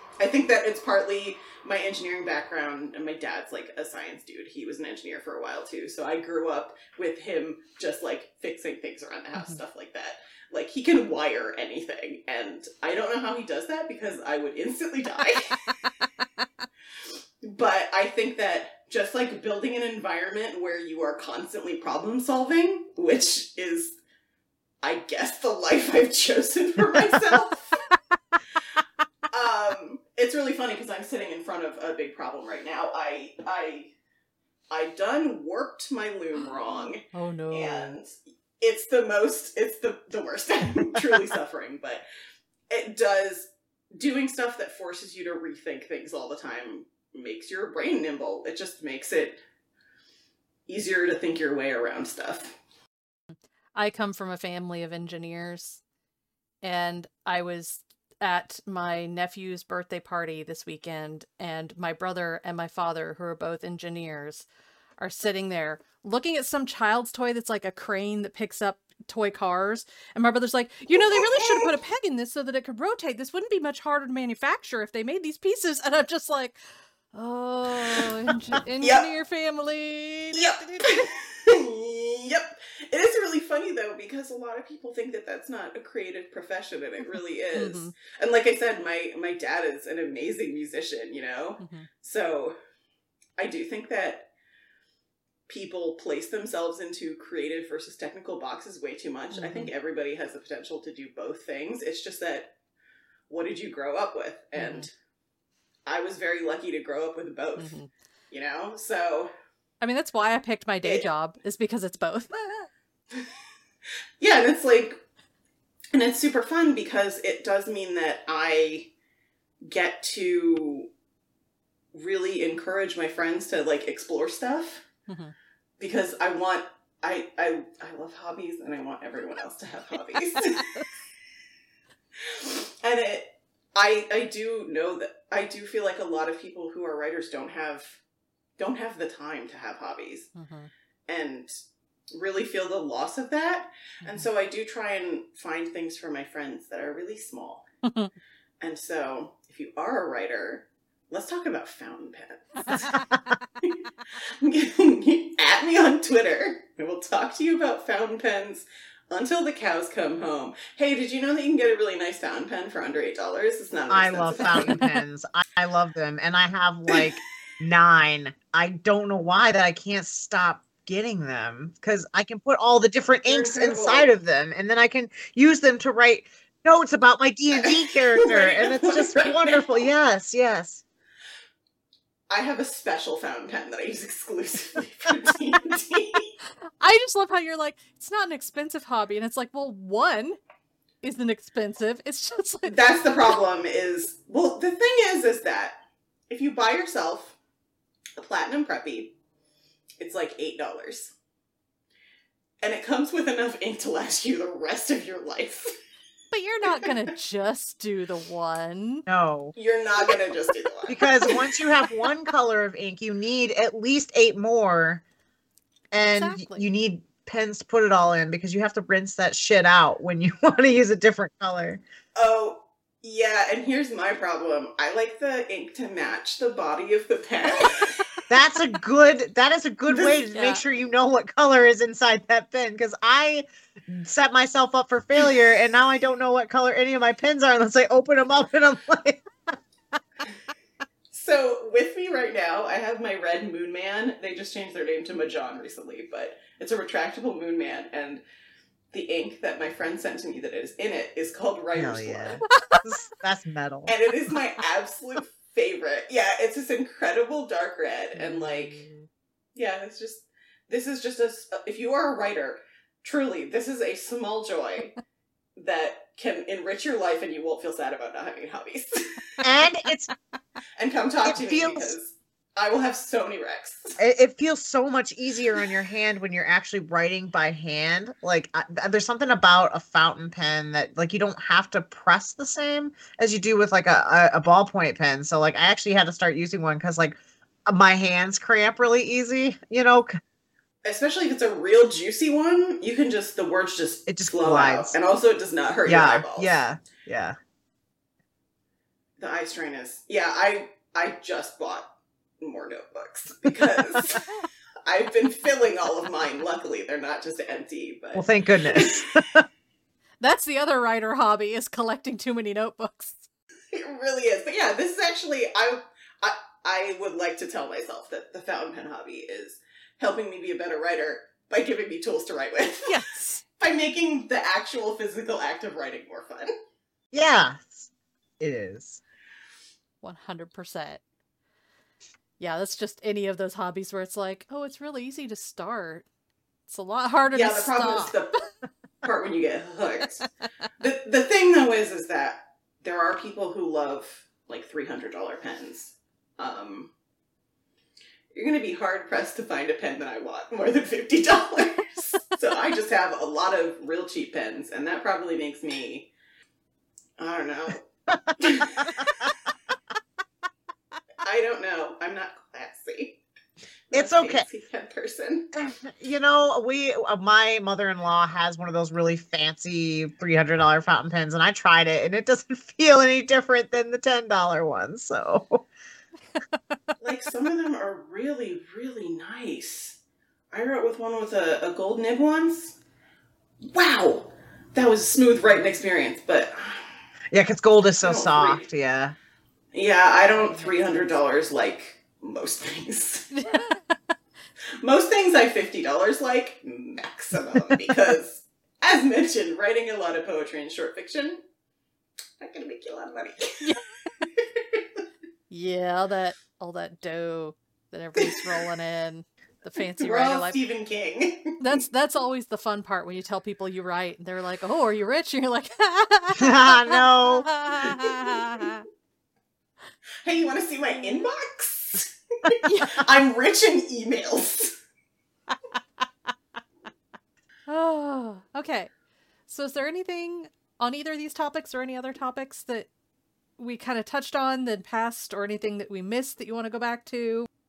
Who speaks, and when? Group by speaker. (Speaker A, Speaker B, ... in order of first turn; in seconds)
Speaker A: 0.2-15.7, 17.4-24.0, 24.8-27.9, 29.3-33.9, 34.7-42.0, 42.7-49.4, 50.7-52.5, 70.9-71.7, 78.8-79.1, 80.3-92.5, 93.4-94.3, 95.5-102.5, 103.3-104.9, 105.8-107.7, 108.3-109.3, 114.2-115.0, 115.9-118.9, 119.6-120.9, 121.9-124.8, 125.8-130.7, 132.2-138.0, 138.6-140.3, 141.1-141.6, 142.1-147.7, 148.6-152.9, 154.4-164.8, 173.2-174.1, 177.6-179.8, 182.3-186.3, 192.7-195.8, 196.3-197.4, 198.2-199.1, 200.0-201.1, 202.6-205.7, 209.5-211.3, 222.2-228.0, 229.9-230.2, 241.1-248.2, 248.9-252.4, 253.9-258.8, 259.5-264.9, 265.6-269.3, 270.8-274.0, 290.8-296.6, 299.2-301.9, 302.4-304.3, 304.8-309.1, 313.7-322.9, 323.6-326.5, 337.3-338.3, 339.0-340.2, 340.8-346.9, 348.3-356.1, 357.2-357.8, 358.4-359.3, 361.2-363.2, 363.9-365.5, 377.0-380.0, 380.5-382.8, 383.6-387.0, 388.0-388.6, 389.7-393.3, 394.8-401.4, 402.4-403.6, 404.4-404.8, 410.0-411.8, 420.2-424.8
Speaker B: 36.4-38.0, 53.8-55.8, 56.6-64.5, 65.0-76.6, 77.1-81.1, 87.1-87.9, 91.6-91.9, 99.3-99.7, 104.5-104.9, 107.6-107.9, 109.8-112.7, 125.1-125.3, 130.3-130.9, 140.3-140.7, 147.8-148.1, 152.7-153.0, 164.5-165.0, 186.8-190.4, 191.0-193.3, 206.3-209.1, 215.9-216.6, 230.3-230.6, 252.5-252.8, 310.2-313.3, 322.9-323.4, 330.0-331.0, 332.4-336.1, 336.7-338.1, 393.3-394.1, 403.6-403.9, 405.5-410.6, 411.6-418.8, 422.6-423.1, 427.7-428.9, 429.5-432.9, 433.6-437.5
Speaker C: 152.8-153.2, 163.9-180.8, 209.1-209.5, 210.9-215.0, 215.9-221.8, 228.3-239.2, 251.7-253.9, 258.4-259.1, 269.4-270.1, 271.2-271.9, 274.0-290.1, 294.1-294.9, 295.9-297.4, 308.1-309.4, 327.1-329.0, 363.9-364.4, 365.5-375.6, 387.3-389.1, 416.4-417.5